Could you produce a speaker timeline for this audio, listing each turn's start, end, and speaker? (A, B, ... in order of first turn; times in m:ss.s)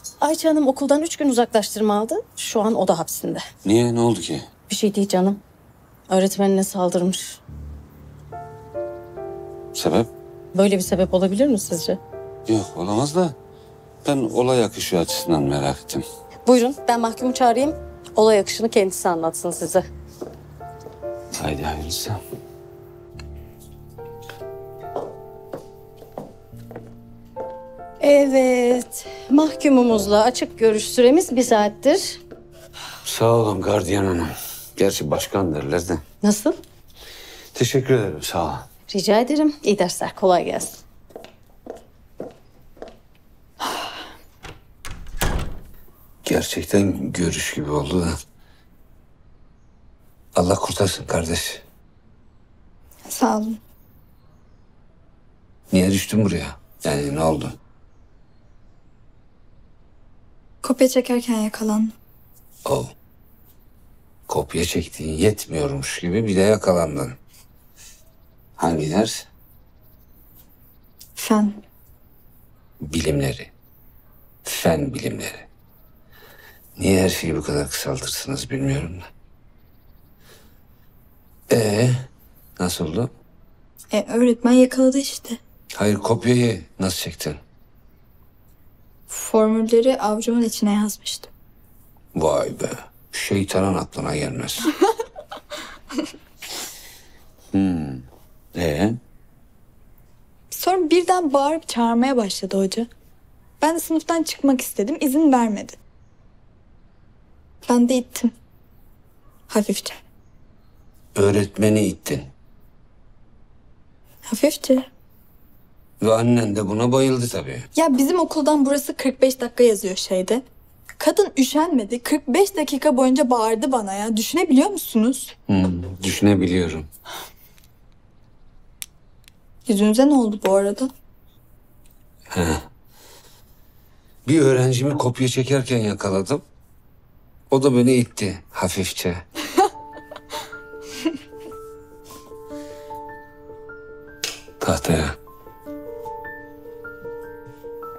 0:00.2-0:03.4 A
0:03.6-0:04.5 B
0:04.7-0:05.4 A
0:06.1-0:07.4 A
0:09.7-0:10.1 B
0:10.5-0:12.0 A
0:12.5-0:13.4 B
0:14.0-0:16.0 B
0:16.4-0:19.8 A
0:21.4-0:22.2 B
0:28.0-0:32.2 A
0:33.0-0:36.0 B
0:36.2-0:36.6 A
0:37.5-0:38.7 B
0:38.9-0:40.8 A
0:46.2-0:48.1 B
0:50.3-0:51.6 B
0:53.0-0:53.6 C
0:55.7-0:57.6 B
1:00.6-1:01.9 C
1:02.6-1:02.9 B
1:04.3-1:07.2 B
1:08.6-1:09.3 B
1:11.2-1:11.6 C
1:12.8-1:13.5 B
1:14.4-1:15.5 B
1:16.8-1:19.0 B
1:21.5-1:22.1 B
1:22.6-1:23.1 B
1:23.9-1:25.4 C
1:25.7-1:27.4 B
1:29.1-1:31.3 C
1:32.1-1:34.7 B
1:37.5-1:39.0 B
1:40.5-1:42.9 C
1:43.6-1:45.8 C
1:47.6-1:48.3 C
1:49.5-1:50.0 C
1:51.1-1:52.3 B
1:54.3-1:54.9 C
1:56.0-1:57.7 B
1:57.7-2:00.4 C
2:01.0-2:05.3 C
2:05.5-2:06.9 B
2:09.7-2:10.9 C
2:12.3-2:12.6 B
2:14.2-2:16.4 B
2:17.5-2:19.2 B
2:24.6-2:25.2 B